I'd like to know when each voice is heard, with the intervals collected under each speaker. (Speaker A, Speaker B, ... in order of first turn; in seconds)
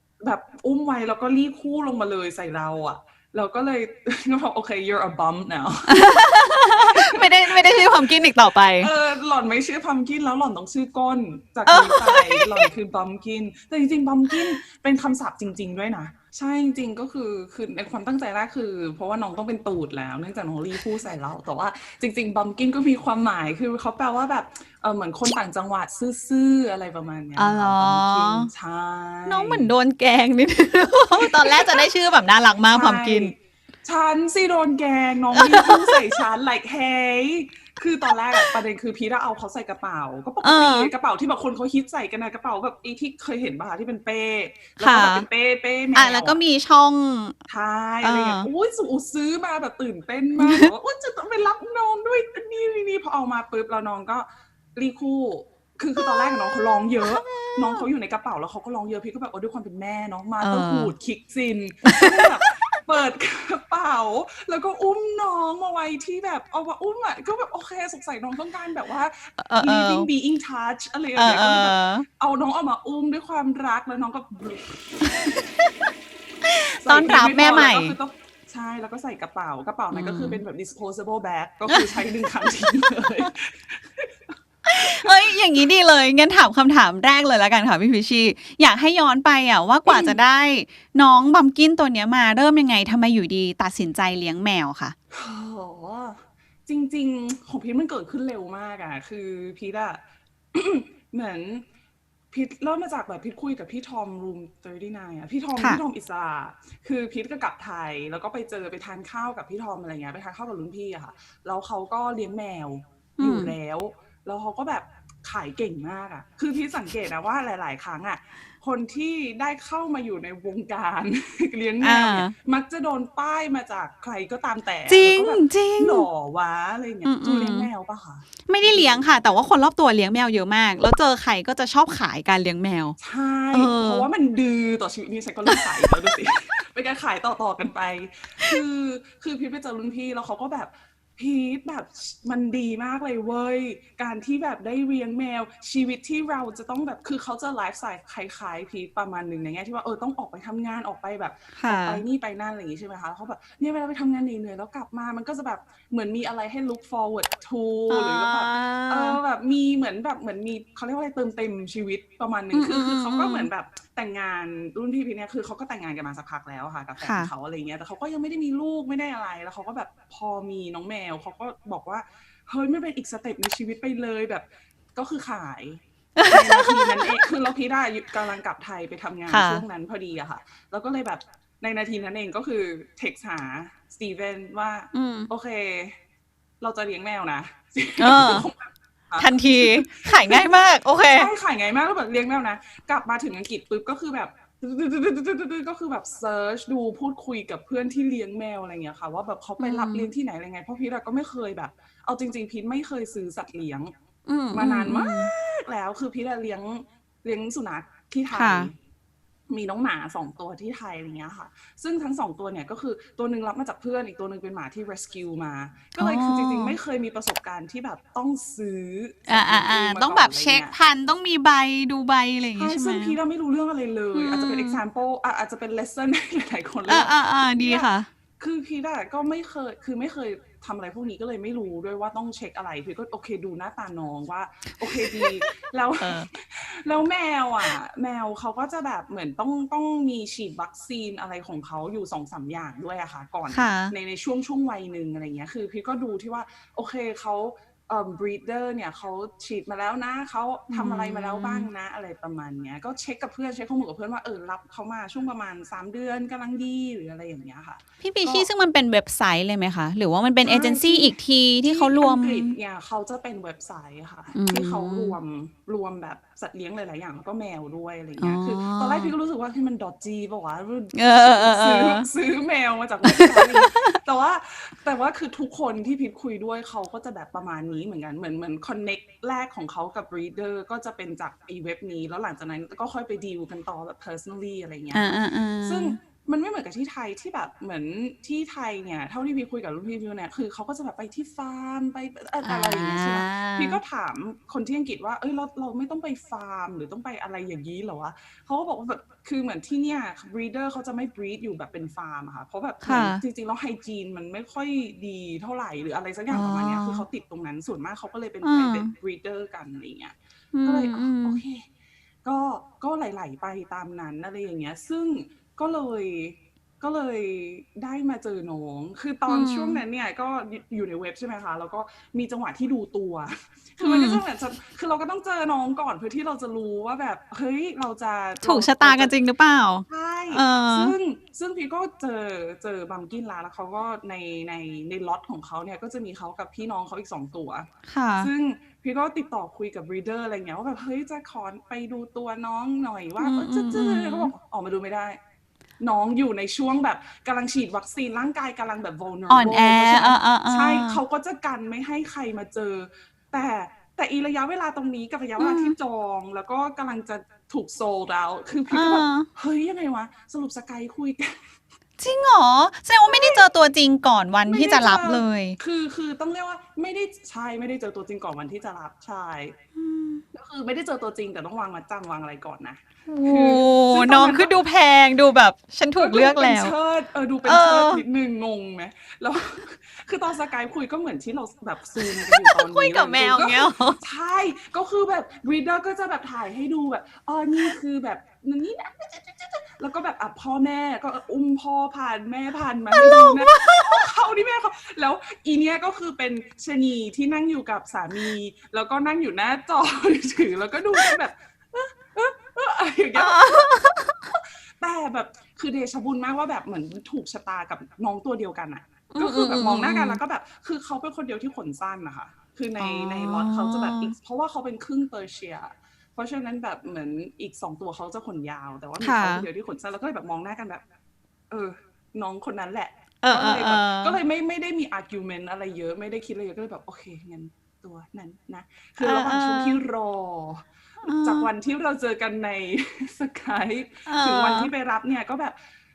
Speaker A: 0.2-6.3, 6.8-8.1, 8.8-29.7, 31.2-31.9, 32.7-46.4, 47.5-75.4, 76.8-85.3, 89.9-90.2, 95.1-100.0, 100.5-101.7, 102.3-129.2, 133.0-186.0, 186.6-203.9, 204.5-208.7, 209.5-220.7, 222.6-227.9, 228.4-258.5, 260.4-285.1, 285.6-311.7, 312.2-329.1, 329.9-337.7, 338.2-345.2, 345.8-361.5, 363.0-363.4, 364.5-369.6, 370.3-374.5, 376.0-420.8, 421.5-430.7, 431.2-435.6
Speaker B: 5.9-8.9, 11.7-12.7, 27.4-28.5, 29.3-33.3, 35.3-36.2, 40.4-40.9, 44.8-45.3, 46.0-47.4, 48.0-48.5, 50.4-50.7, 56.0-57.9, 60.4-60.9, 61.9-62.8, 69.4-70.1, 71.2-72.0, 75.0-75.7, 76.5-78.0, 79.9-80.4, 81.7-83.3, 84.7-95.0, 113.2-113.5, 121.8-122.3, 124.9-126.1, 127.0-127.7, 128.5-133.0, 133.5-134.1, 135.5-135.9, 151.6-152.0, 157.9-159.2, 162.5-163.5, 167.0-167.3, 176.2-177.2, 179.3-179.6, 184.9-185.3, 188.0-188.5, 189.2-191.3, 199.6-200.1, 204.3-205.3, 208.3-208.7, 216.0-216.8, 219.3-223.2, 224.1-224.8, 226.9-228.1, 235.0-236.3, 243.5-243.9, 250.7-251.7, 258.0-262.6, 264.3-265.2, 268.2-269.1, 270.9-272.1, 273.1-274.0, 284.9-286.0, 292.4-293.8, 302.8-303.2, 306.3-307.1, 308.4-308.9, 310.5-311.4, 319.3-319.8, 323.8-324.2, 328.4-330.9, 337.9-338.3, 343.2-344.3, 349.3-351.0, 355.4-355.8, 358.7-359.3, 362.0-365.6, 369.8-370.2, 373.1-376.7, 377.4-378.0, 382.0-384.0, 392.9-393.9, 403.2-404.3, 409.1-410.2, 412.8-414.1, 419.0-419.5, 423.2-424.2, 429.0-429.8, 431.0-431.5, 434.1-434.7